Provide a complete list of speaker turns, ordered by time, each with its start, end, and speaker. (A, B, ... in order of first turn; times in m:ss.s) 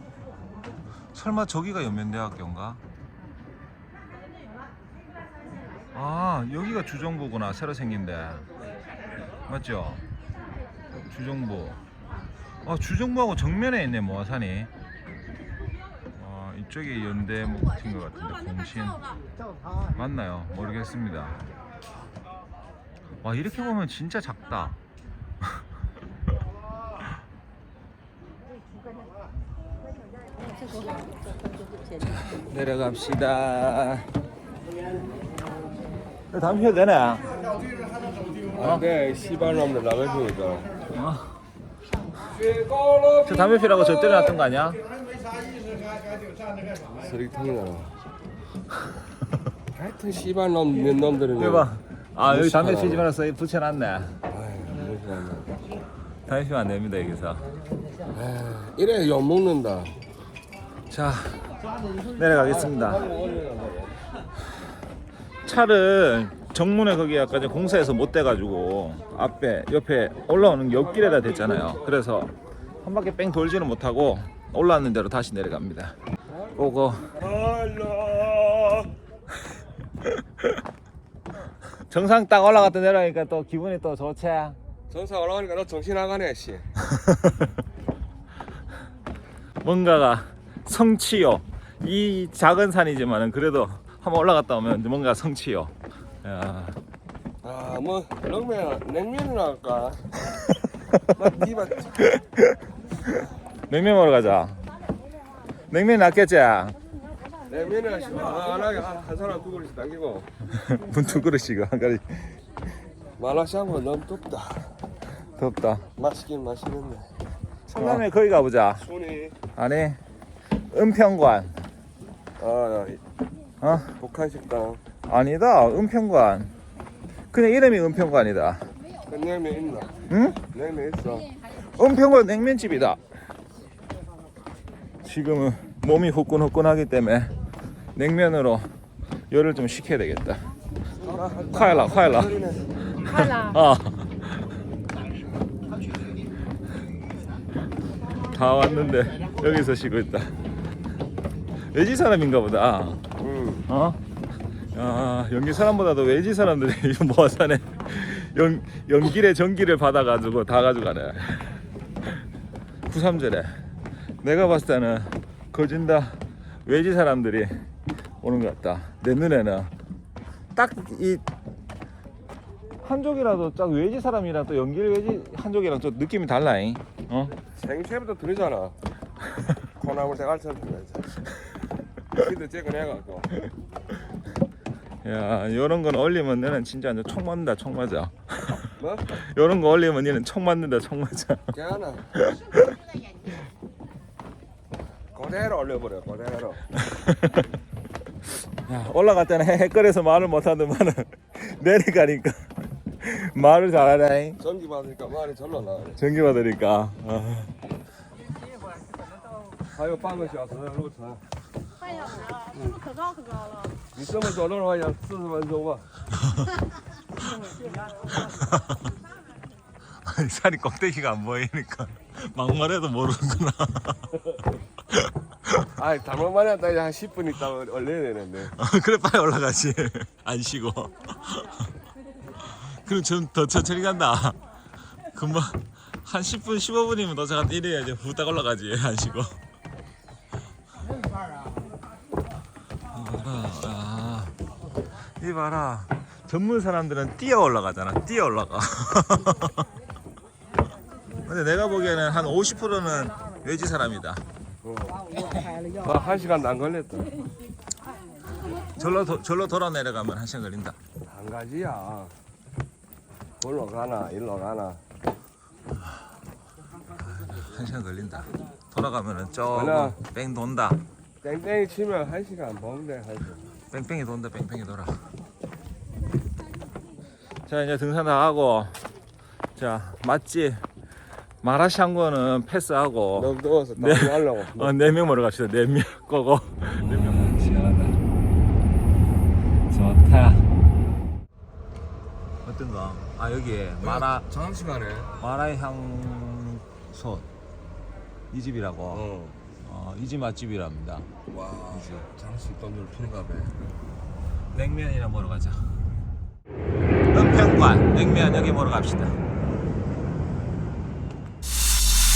0:01.1-0:02.8 A
0:05.9-0:08.5 A
0:09.5-0:10.0 A
0:11.1-0:11.8 A
0:12.6-0:14.7 A
0:16.2-0:19.1 A
0:19.9-0:21.4 A
0:23.2-0:24.8 A
0:32.0-0:34.1 A
0:36.3-0:37.3 A
0:38.5-0:40.8 B
0:40.9-0:41.3 A
0:42.3-0:43.5 B
0:43.2-0:44.8 A
0:46.8-0:47.9 B
0:49.7-0:51.7 B
0:51.4-0:54.2 A
0:52.2-0:53.1 B
0:54.3-0:55.5 B
0:56.3-0:57.5 A
0:58.1-1:00.0 B
1:00.9-1:01.5 A
1:02.1-1:03.1 A
1:02.7-1:03.9 B
1:05.4-1:12.3 A
1:10.7-1:12.0 B
1:12.8-1:16.0 A
1:16.6-1:17.1 A
1:16.8-1:18.9 B
1:21.9-1:24.6 A
1:24.9-1:26.7 B
1:26.9-1:27.5 A
1:29.6-1:36.8 A
1:37.4-1:40.2 B
1:41.1-1:42.0 B
1:43.7-1:44.6 A
1:45.7-1:46.8 A
1:47.5-1:50.3 B
1:50.5-1:52.4 A
1:53.2-1:54.7 B
1:55.4-1:55.9 A
1:56.0-1:57.1 B
1:57.7-1:58.8 A
1:57.8-1:58.0 B
1:58.8-1:59.4 B
1:59.6-2:00.0 A
2:00.7-2:01.6 A
2:02.4-2:03.0 B
2:03.6-2:03.9 A
2:03.9-2:04.8 B
2:05.1-2:06.5 A
2:07.3-2:08.7 A
2:09.0-2:10.0 B
2:10.1-2:10.4 A
2:10.5-2:11.4 B
2:11.6-2:13.0 A
2:15.0-2:17.3 A
2:18.0-2:18.7 A
2:19.3-2:20.5 A
2:21.0-2:22.8 B
2:21.5-2:22.4 A
2:23.0-2:24.3 A
2:28.3-2:30.4 A
2:31.6-2:33.0 A
2:33.2-2:33.7 B
2:33.7-2:34.0 A
2:34.7-2:42.2 A
2:42.9-2:43.6 A
2:44.2-2:47.5 A
2:48.2-2:49.7 A
2:50.6-2:51.2 A
2:52.8-2:57.4 A
2:57.5-2:58.8 B
2:59.8-3:01.2 B
3:02.1-3:03.3 B
3:05.0-3:11.4 A
3:08.8-3:09.2 B
3:11.5-3:12.1 B
3:12.2-3:12.7 A
3:15.1-3:16.6 B
3:16.8-3:17.4 A
3:18.6-3:24.4 A
3:24.4-3:26.0 B
3:26.0-3:27.5 A
3:29.7-3:31.2 B
3:33.9-3:35.9 B
3:38.2-3:38.7 A
3:40.0-3:44.2 A
3:44.9-3:45.7 A
3:45.8-3:48.5 B
3:48.6-3:51.6 A
3:52.4-3:54.4 A
3:55.1-3:59.4 A
4:02.9-4:04.3 A
4:05.2-4:09.7 A
4:11.2-4:14.2 A
4:14.6-4:17.1 B
4:18.7-4:20.8 A
4:21.0-4:22.1 B
4:23.4-4:24.8 B
4:27.0-4:30.8 A
4:29.5-4:30.0 B
4:31.2-4:33.5 B
4:33.7-4:35.0 A
4:37.5-4:38.8 A
4:39.6-4:40.6 A
4:41.4-4:48.0 A
4:43.2-4:44.8 B
4:46.9-4:47.2 B
4:49.7-4:50.5 A
4:52.4-4:54.2 A
4:53.8-4:55.2 B
4:55.2-4:57.3 A
4:58.3-4:59.0 A
4:58.9-4:59.4 B
4:59.6-5:01.1 A
5:01.3-5:03.6 B
5:04.5-5:05.7 A
5:07.1-5:09.2 A